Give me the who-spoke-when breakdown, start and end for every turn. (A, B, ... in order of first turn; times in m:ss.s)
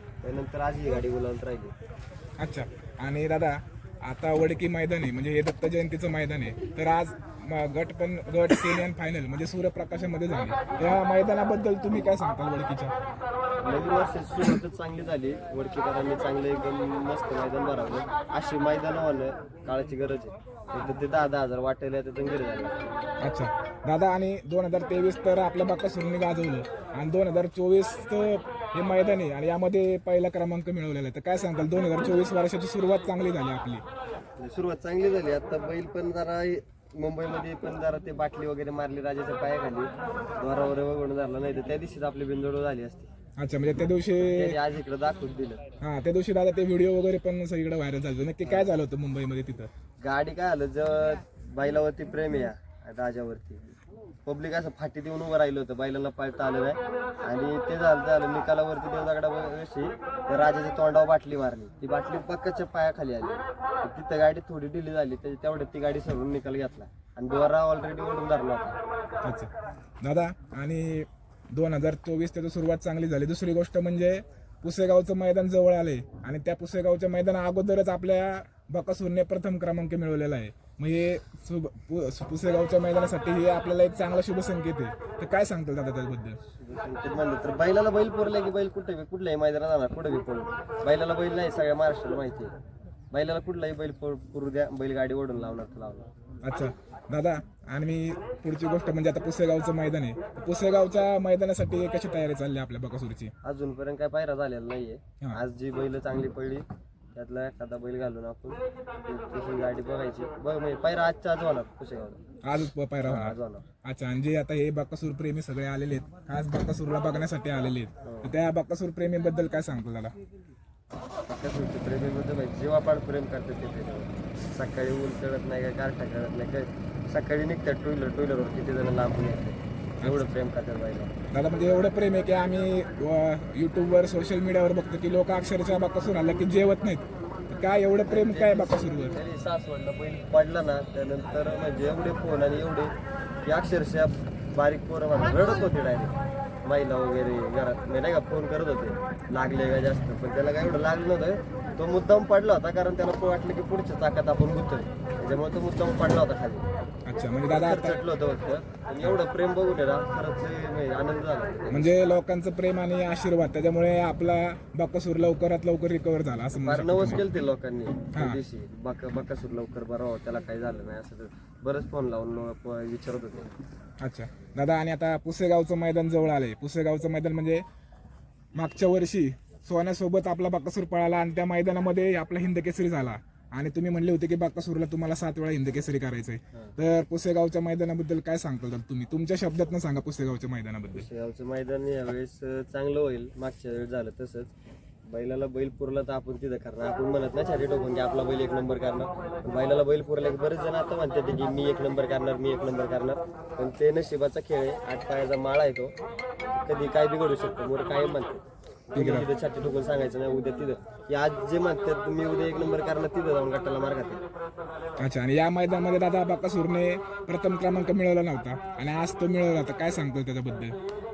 0:00.2-0:01.7 A
0:02.4-0:12.9 B
0:13.6-0:22.9 A
0:23.2-0:33.8 B
0:34.4-0:43.1 A
0:43.4-0:44.6 B
0:44.3-0:45.6 A
0:45.8-0:49.7 B
0:48.4-0:48.7 A
0:50.0-1:08.8 A
1:09.2-1:09.5 B
1:10.0-1:26.4 B
1:26.6-1:32.5 A
1:33.1-1:36.1 A
1:36.4-1:43.3 B
1:43.4-1:52.2 A
1:52.4-2:00.2 B
1:53.0-1:53.6 A
1:58.0-1:58.3 A
2:01.3-2:11.1 A
2:10.0-2:10.3 B
2:11.3-2:19.2 B
2:18.0-2:22.9 A
2:23.4-2:26.1 A
2:26.6-2:36.6 A
2:37.1-2:38.0 B
2:37.5-2:41.9 A
2:41.7-2:47.2 B
2:46.6-2:53.5 A
2:48.1-2:48.4 B
2:54.0-2:57.6 B
2:58.6-3:11.1 B
3:10.9-3:14.5 A
3:15.1-3:25.9 A
3:26.5-3:34.2 A
3:29.0-3:29.3 B
3:35.0-3:40.8 B